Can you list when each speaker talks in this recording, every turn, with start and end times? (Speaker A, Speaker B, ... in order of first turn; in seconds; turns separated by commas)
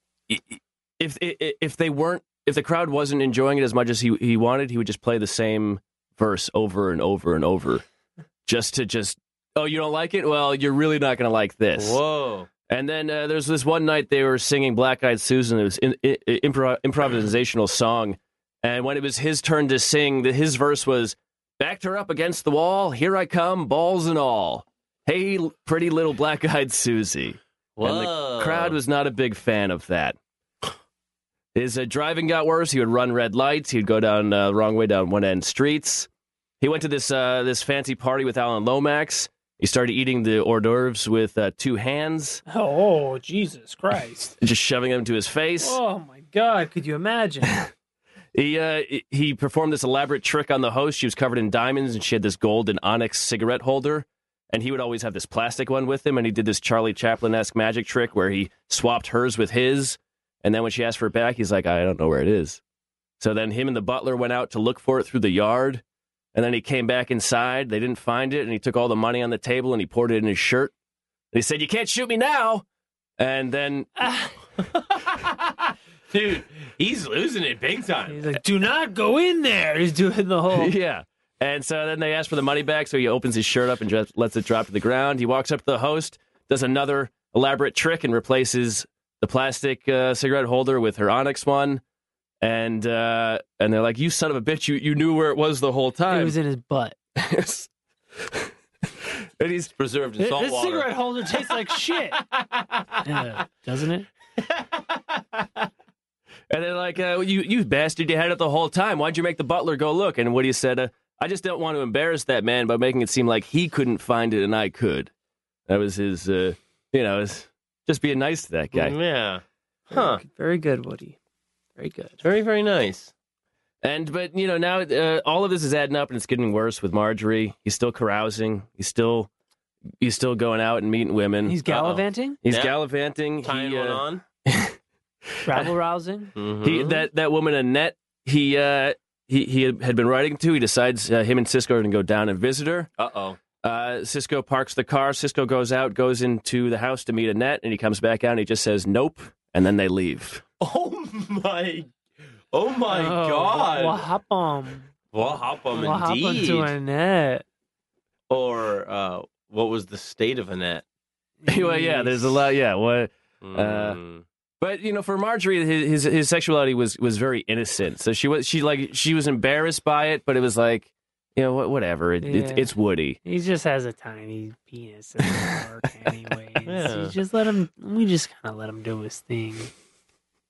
Speaker A: 0.3-7.8, Speaker A: 8.4-12.0, Speaker B: 11.8-12.5, Speaker A: 12.7-30.2, Speaker B: 27.8-28.8, Speaker A: 31.5-36.1, Speaker A: 36.6-42.4, Speaker C: 42.5-44.3, Speaker A: 44.4-45.8, Speaker C: 45.6-47.6, Speaker A: 48.3-62.6, Speaker A: 63.2-65.8, Speaker A: 66.3-70.7, Speaker A: 71.3-72.6, Speaker A: 73.2-73.9, Speaker C: 74.0-74.3, Speaker B: 75.0-75.5, Speaker B: 76.1-78.3, Speaker C: 78.1-80.7, Speaker A: 80.5-91.8, Speaker A: 92.4-96.3, Speaker C: 96.1-97.0, Speaker A: 97.2-99.7, Speaker B: 99.8-101.5, Speaker C: 100.2-102.2, Speaker C: 103.0-104.1, Speaker B: 104.5-104.8, Speaker A: 106.5-115.1, Speaker A: 115.7-119.0, Speaker B: 118.7-120.2, Speaker C: 119.9-121.2, Speaker C: 121.8-122.2, Speaker B: 122.2-123.1, Speaker A: 123.8-129.3, Speaker A: 130.0-131.6, Speaker C: 131.4-132.4, Speaker B: 131.7-132.8, Speaker A: 132.4-134.8, Speaker B: 133.4-134.2, Speaker C: 135.4-136.3, Speaker B: 136.3-137.0, Speaker A: 136.6-142.9, Speaker B: 143.0-143.4, Speaker A: 143.6-150.4, Speaker B: 150.6-151.9, Speaker B: 152.5-154.1, Speaker C: 152.9-154.9, Speaker B: 155.1-156.7, Speaker C: 155.7-157.4, Speaker B: 158.3-160.8, Speaker C: 161.4-162.4, Speaker A: 161.4-164.0, Speaker B: 163.4-164.2, Speaker A: 164.6-173.2, Speaker C: 172.2-172.7, Speaker C: 173.2-179.7, Speaker B: 176.6-177.1